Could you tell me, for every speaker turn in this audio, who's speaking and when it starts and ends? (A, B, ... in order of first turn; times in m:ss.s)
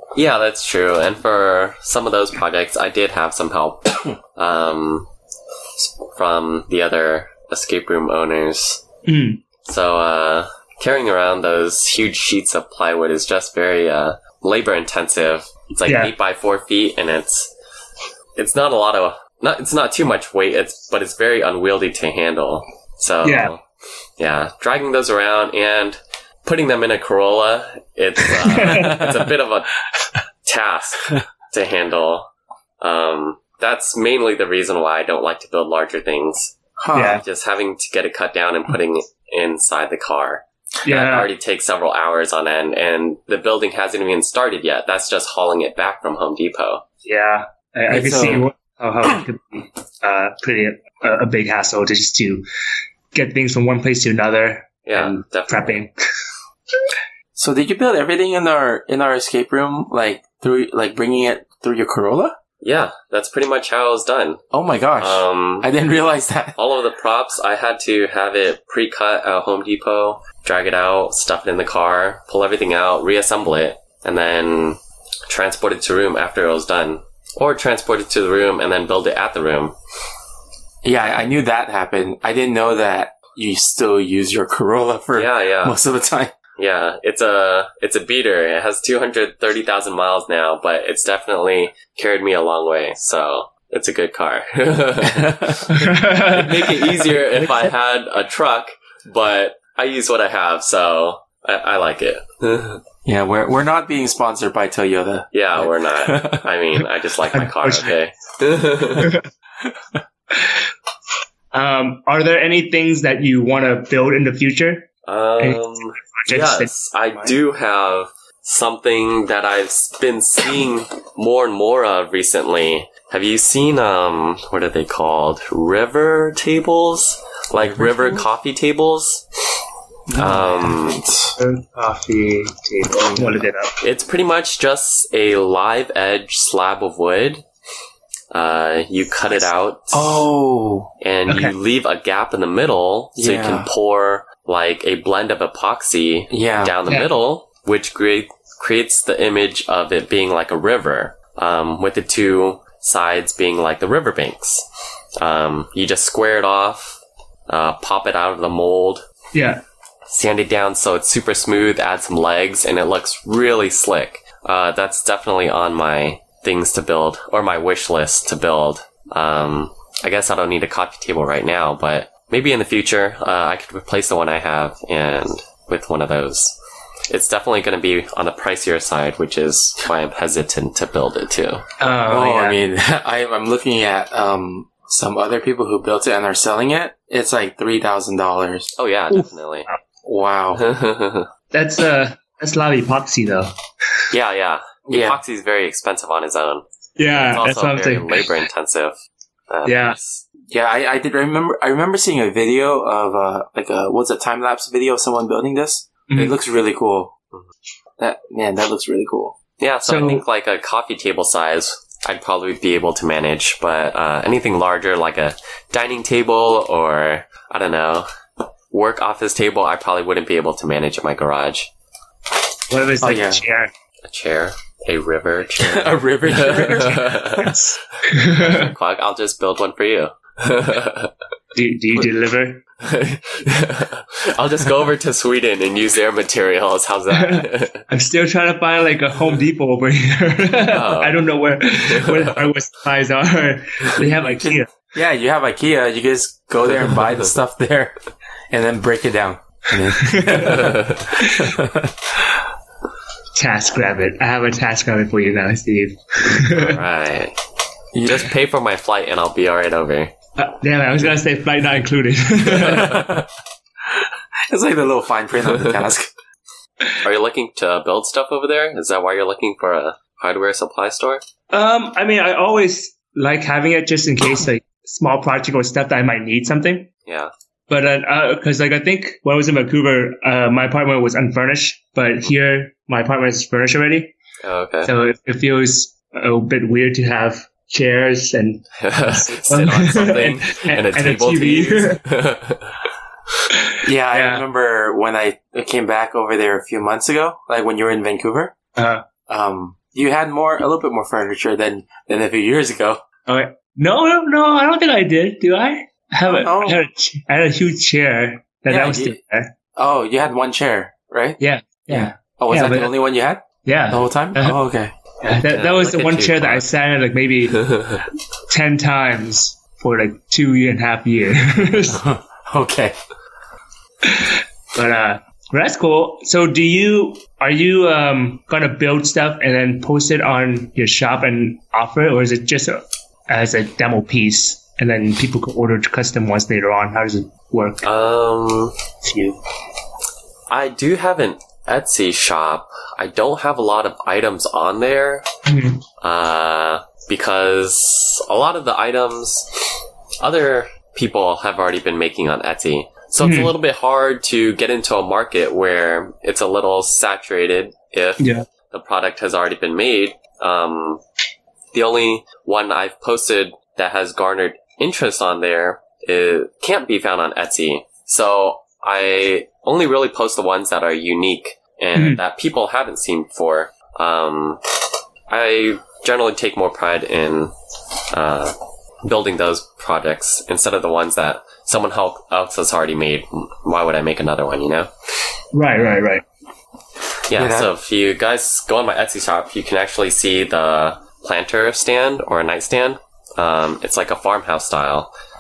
0:00.2-0:05.1 A
0:05.8-0:08.8 A
0:09.1-0:09.4 B
0:09.6-0:17.5 A
0:15.8-0:16.1 B
0:18.4-0:23.6 A
0:23.2-0:23.5 B
0:24.2-0:29.8 A
0:28.4-0:29.1 B
0:28.8-0:29.2 C
0:30.4-0:32.3 A
0:32.8-0:36.6 A
0:36.8-0:37.2 C
0:36.9-0:37.2 B
0:37.1-0:46.8 A
0:40.8-0:41.3 B
0:47.0-0:52.4 B
0:47.9-0:48.4 C
0:53.1-0:55.9 B
0:54.9-0:55.8 A
0:57.4-1:02.4 C
1:02.6-1:04.4 A
1:04.5-1:06.6 C
1:05.0-1:05.7 A
1:06.6-1:19.8 A
1:20.8-1:26.3 C
1:25.1-1:25.8 A
1:26.6-1:42.8 A
1:35.1-1:35.8 C
1:35.7-1:36.7 B
1:43.0-1:46.5 C
1:45.3-1:49.2 A
1:47.3-1:48.0 B
1:49.0-1:49.3 B
1:50.3-1:50.6 B
1:51.5-1:54.9 B
1:55.1-2:09.2 A
1:55.4-1:57.4 B
2:07.6-2:08.2 C
2:10.1-2:11.4 C
2:10.2-2:11.0 A
2:11.4-2:13.8 B
2:13.0-2:13.4 C
2:13.8-2:17.4 A
2:18.3-2:20.3 A
2:19.9-2:20.9 C
2:21.0-2:34.6 A
2:21.3-2:21.6 B
2:23.2-2:23.7 C
2:26.3-2:26.8 C
2:35.2-2:39.0 A
2:39.3-2:39.6 B
2:40.1-2:56.6 A
2:57.1-3:01.6 A
3:01.8-3:02.6 B
3:02.1-3:08.7 C
3:08.8-3:09.7 A
3:10.0-3:10.6 C
3:10.6-3:11.3 A
3:11.5-3:14.0 B
3:14.1-3:19.0 A
3:14.9-3:15.2 C
3:17.0-3:18.2 B
3:19.5-3:20.2 A
3:19.6-3:20.0 B
3:20.5-3:27.2 C
3:26.1-3:26.3 B
3:28.0-3:29.4 C
3:29.6-3:38.1 A
3:29.8-3:30.2 B
3:38.7-3:41.7 A
3:42.7-3:43.7 B
3:43.0-3:43.4 C
3:44.0-3:51.1 A
3:45.6-3:47.4 C
3:47.4-3:48.7 B
3:51.5-3:52.6 B
3:52.8-3:57.9 A
3:57.1-4:04.7 B
4:00.6-4:02.5 A
4:04.3-4:08.0 C
4:08.5-4:11.9 C
4:10.0-4:10.7 B
4:10.5-4:11.0 A
4:11.2-4:11.5 B
4:13.3-4:16.8 B
4:16.3-4:17.4 A
4:17.9-4:18.3 C
4:18.0-4:20.1 A
4:20.4-4:23.1 B
4:22.6-4:23.3 C
4:24.5-4:26.1 C
4:27.0-4:31.2 A
4:31.5-4:36.9 B
4:37.7-4:44.1 B
4:44.4-4:44.9 A
4:44.8-4:52.0 B
4:48.8-4:52.8 A
4:53.6-4:54.4 B
4:53.8-4:58.5 C
4:58.8-4:59.0 B
4:59.3-5:03.0 C
5:03.3-5:09.5 B
5:06.3-5:06.8 C
5:08.7-5:09.2 C
5:09.8-5:14.9 C
5:11.4-5:12.9 B
5:13.6-5:14.6 B
5:15.2-5:17.8 B
5:15.5-5:16.7 A
5:17.5-5:18.0 A
5:18.5-5:22.0 B
5:21.9-5:23.0 C
5:24.0-5:37.9 B
5:37.8-5:38.8 A
5:39.0-5:39.4 B
5:40.5-5:45.2 A
5:45.5-5:45.8 B
5:46.0-5:49.5 A
5:50.2-6:01.0 A
5:53.2-5:53.5 B
5:58.2-5:58.5 B
6:01.7-6:14.6 A
6:12.0-6:12.2 B
6:15.3-6:17.5 A
6:18.1-6:24.9 A
6:25.5-6:26.2 B
6:27.3-6:35.1 A
6:27.4-6:27.7 C